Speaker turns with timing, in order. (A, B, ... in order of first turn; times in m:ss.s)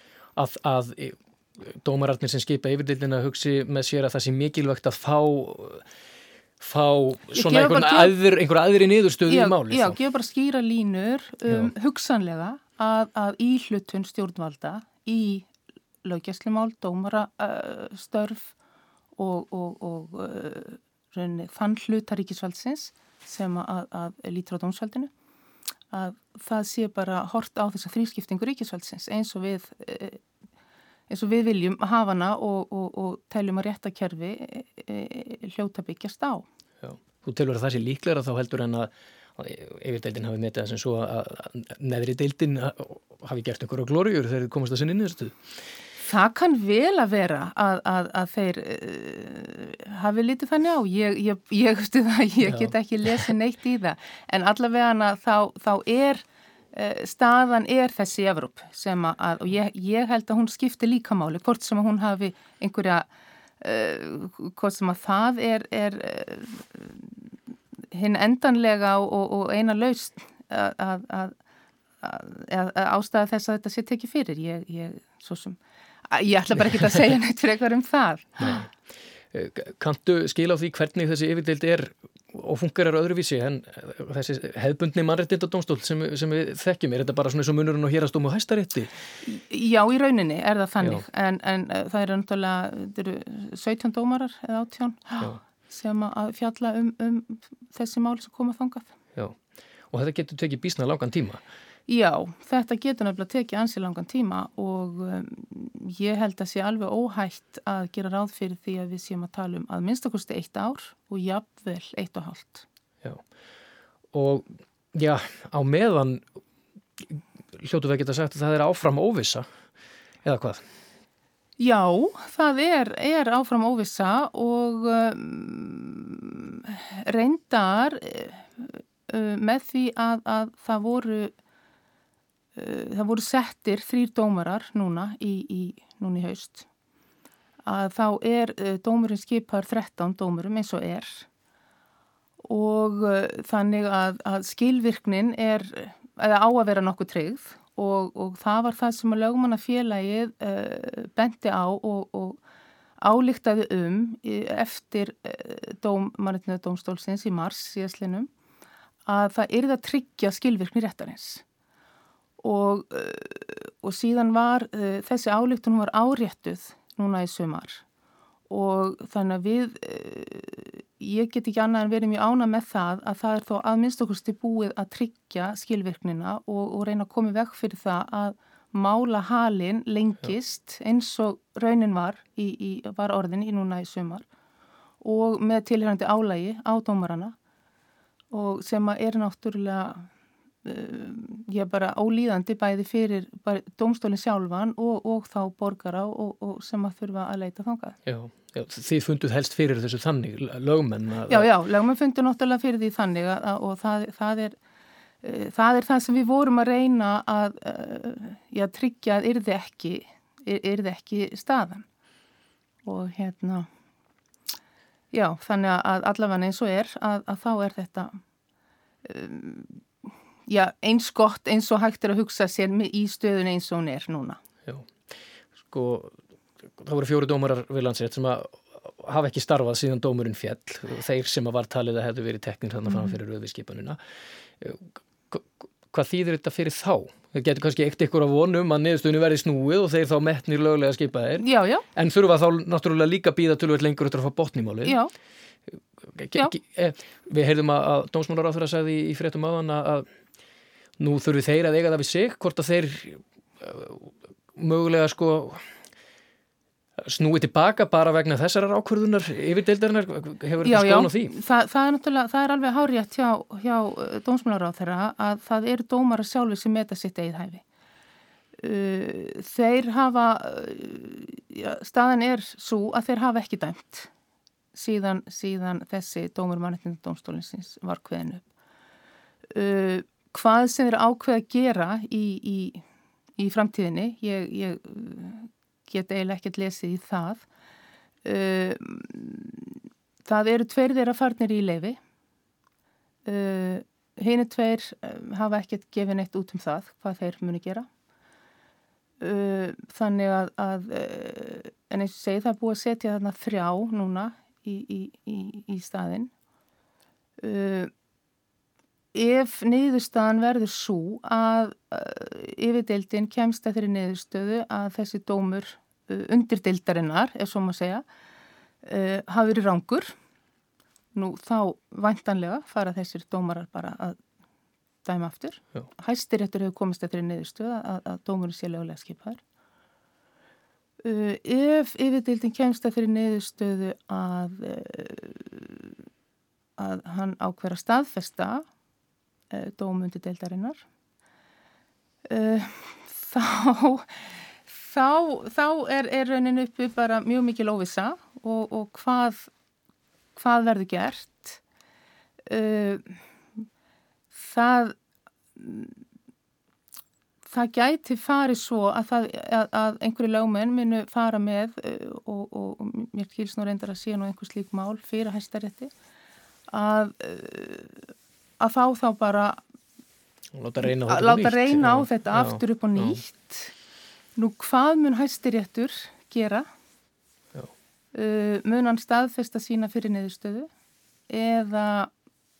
0:00.4-0:05.8 A
0:06.6-0:10.0 A
0:07.3-0:08.2 B
0:09.3-0:15.5 B
0:16.0-0:18.5 B
0:19.2-0:25.1 B
0:25.9-0:30.2 B
0:31.1-0:36.4 B
0:36.8-0:45.3 A
0:46.0-1:03.1 B
0:52.4-0:52.7 A
1:03.6-1:07.1 B
1:07.9-1:11.4 B
1:12.0-1:15.6 B
1:16.1-1:18.6 B
1:18.4-1:18.7 A
1:19.3-1:29.0 A
1:29.2-1:38.9 B
1:39.9-1:41.4 A
1:41.9-1:52.6 B
1:54.1-1:56.2 A
1:57.1-1:59.5 A
2:00.2-2:00.6 A
2:01.6-2:11.3 B
2:12.6-2:16.6 B
2:17.6-2:21.3 B
2:22.4-2:32.4 B
2:33.0-2:38.3 B
2:39.0-2:41.4 B
2:42.4-2:47.8 B
2:48.5-3:04.2 B
3:05.0-3:07.3 B
3:08.3-3:10.1 B
3:10.6-3:18.0 B
3:18.0-3:21.5 A
3:21.3-3:24.6 B
3:25.2-3:31.8 B
3:32.8-3:33.7 B
3:35.1-3:38.2 B
3:39.0-3:44.4 B
3:45.7-3:46.2 A
3:46.8-3:54.0 A
3:52.9-3:53.2 B
3:54.6-4:05.0 A
4:01.4-4:01.8 B
4:04.8-4:05.1 B
4:06.1-4:10.0 A
4:11.0-4:15.6 A
4:17.0-4:21.3 A
4:20.6-4:27.6 B
4:28.6-4:34.1 B
4:34.7-4:38.4 B
4:39.5-4:42.8 B
4:43.4-4:47.4 B
4:48.2-4:49.7 B
4:50.2-4:52.0 B
4:53.2-4:57.9 B
4:59.2-5:06.3 B
5:07.4-5:07.9 B
5:09.1-5:18.0 B
5:18.8-5:20.1 B
5:21.1-5:24.2 B
5:25.0-5:29.4 B
5:31.0-5:35.9 B
5:36.8-5:38.6 B
5:39.5-5:40.8 B
5:42.3-5:44.1 B
5:44.7-5:49.5 B
5:50.4-5:51.6 B
5:52.5-5:53.2 B
5:54.3-5:55.0 B
5:55.6-5:56.0 B
5:57.5-6:05.9 B
6:06.7-6:08.0 B
6:08.6-6:09.6 B
6:10.5-6:13.2 A
6:10.8-6:13.7 B
6:14.4-6:16.7 B
6:18.1-6:20.7 B
6:21.3-6:22.1 B